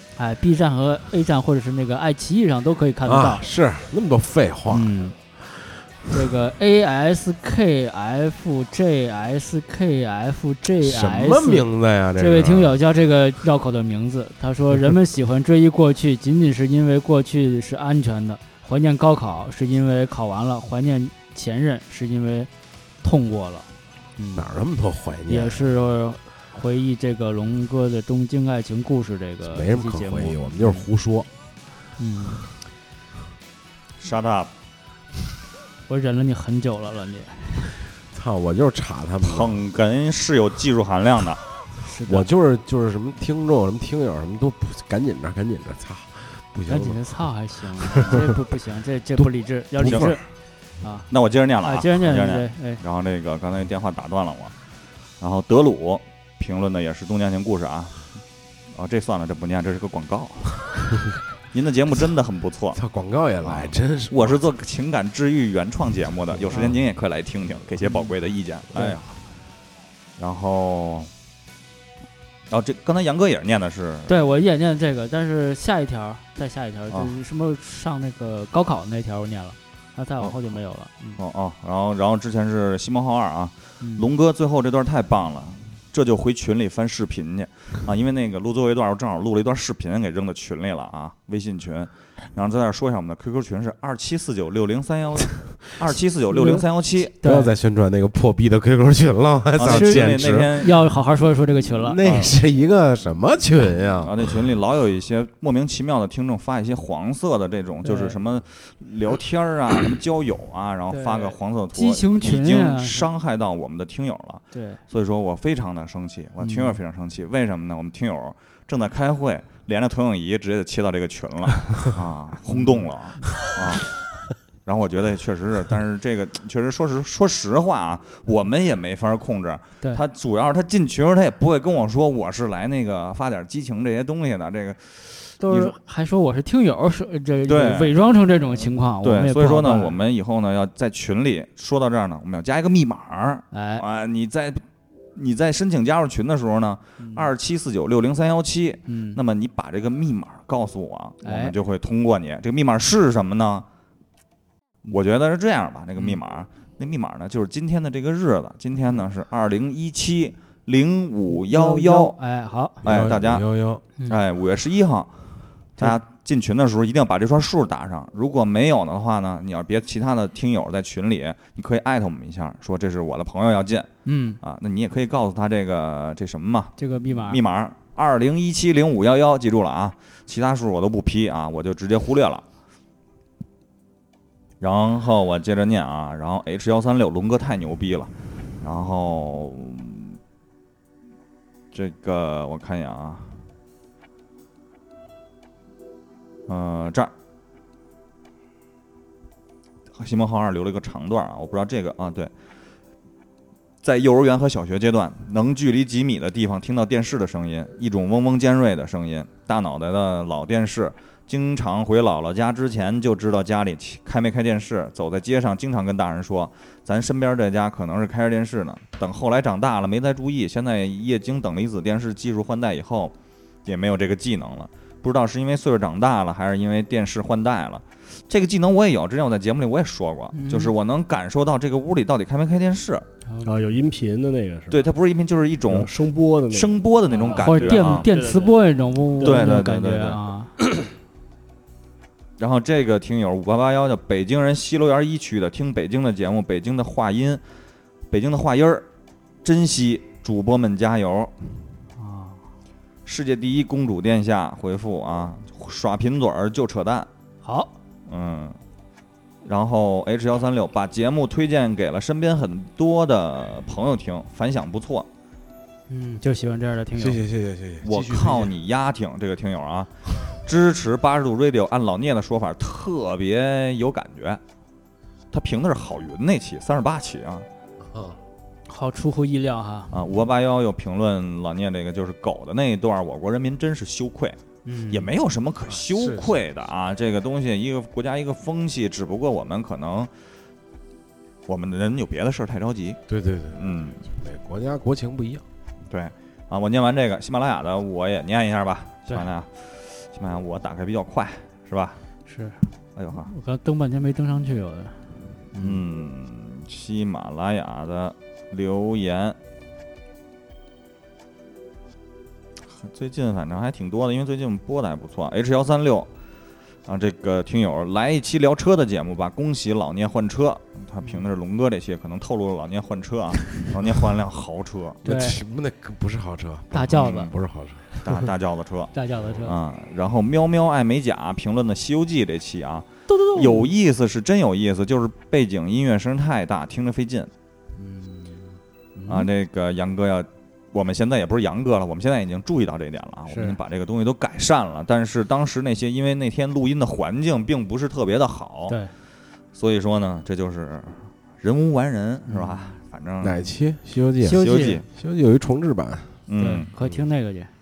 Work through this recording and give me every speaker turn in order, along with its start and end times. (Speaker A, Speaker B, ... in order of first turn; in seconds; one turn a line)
Speaker A: 0.2-3.4
Speaker B: 3.0-4.9
Speaker A: 4.7-5.2
Speaker A: 6.1-11.7
Speaker B: 10.8-12.8
Speaker A: 12.2-22.5
Speaker A: 23.0-23.7
Speaker A: 24.2-24.5
Speaker B: 24.4-25.7
Speaker A: 25.3-30.9
Speaker B: 29.4-31.3
Speaker A: 32.0-32.5
Speaker C: 34.0-34.5
Speaker A: 35.9-37.8
Speaker B: 38.1-39.6
Speaker C: 39.2-41.4
Speaker A: 41.8-42.3
Speaker B: 42.1-47.0
Speaker A: 46.7-50.2
Speaker B: 47.9-48.2
Speaker B: 49.8-50.2
Speaker C: 49.9-50.1
Speaker A: 50.8-51.1
Speaker C: 51.1-54.5
Speaker A: 51.6-52.8
Speaker C: 55.2-58.1
Speaker C: 58.7-62.8
Speaker B: 62.7-64.4
Speaker C: 63.4-69.1
Speaker A: 67.8-68.1
Speaker C: 70.2-71.1
Speaker C: 72.5-74.2
Speaker A: 74.1-81.2
Speaker C: 76.9-77.2
Speaker C: 81.2-97.1
Speaker A: 83.8-84.1
Speaker A: 96.4-96.6
Speaker A: 97.2-97.5
Speaker B: 97.2-100.6
Speaker C: 99.6-100.8
Speaker A: 99.7-102.0
Speaker B: 101.8-104.2
Speaker C: 102.0-102.3
Speaker C: 104.0-123.9
Speaker A: 107.8-108.2
Speaker A: 110.9-113.1
Speaker A: 114.5-114.8
Speaker A: 116.4-116.8
Speaker A: 122.5-122.8
Speaker C: 124.7-135.8
Speaker A: 135.4-139.9
Speaker C: 137.5-138.0
Speaker C: 139.0-153.7
Speaker A: 143.5-143.8
Speaker A: 147.0-147.3
Speaker A: 148.9-149.2
Speaker A: 151.2-151.5
Speaker C: 154.8-162.2
Speaker A: 161.3-162.8
Speaker C: 162.8-163.5
Speaker B: 162.8-163.8
Speaker C: 164.1-165.1
Speaker C: 165.8-173.9
Speaker A: 174.1-174.4
Speaker C: 174.4-182.4
Speaker A: 176.8-177.4
Speaker C: 184.6-190.2
Speaker C: 191.7-193.4
Speaker C: 196.5-197.1
Speaker C: 200.0-202.3
Speaker C: 203.8-223.1
Speaker C: 223.7-233.1
Speaker A: 230.3-230.7
Speaker A: 233.3-233.7
Speaker D: 233.4-234.8
Speaker C: 234.7-236.0
Speaker D: 235.7-238.5
Speaker C: 236.5-238.1
Speaker A: 237.3-240.5
Speaker D: 239.2-239.5
Speaker C: 239.2-240.2
Speaker C: 242.4-247.4
Speaker C: 248.1-248.9
Speaker C: 249.4-251.3
Speaker A: 252.0-252.4
Speaker C: 253.1-257.1
Speaker A: 257.4-257.7
Speaker C: 258.1-258.6
Speaker C: 259.4-265.1
Speaker A: 265.9-267.2
Speaker B: 267.0-268.5
Speaker C: 267.8-274.4
Speaker C: 275.3-277.5
Speaker B: 277.9-278.2
Speaker A: 278.7-279.9
Speaker C: 279.9-284.4
Speaker A: 284.6-285.1
Speaker C: 284.9-290.1
Speaker B: 285.7-286.4
Speaker C: 291.5-293.0
Speaker B: 293.1-295.4
Speaker C: 293.5-294.0
Speaker C: 295.9-302.0
Speaker A: 302.3-302.6
Speaker C: 303.0-303.3
Speaker A: 303.2-305.8
Speaker C: 305.6-309.4
Speaker C: 312.7-316.1
Speaker C: 316.9-325.0
Speaker B: 325.0-327.9
Speaker A: 325.1-325.4
Speaker A: 326.7-327.3
Speaker C: 328.0-328.9
Speaker A: 328.9-329.5
Speaker C: 329.4-337.3
Speaker A: 333.1-333.7
Speaker A: 337.8-339.3
Speaker C: 339.1-348.8
Speaker A: 343.3-343.6
Speaker C: 349.5-353.5
Speaker A: 352.3-352.7
Speaker B: 353.2-356.1
Speaker A: 354.2-354.8
Speaker C: 354.4-354.9
Speaker C: 356.3-356.7
Speaker A: 356.4-357.5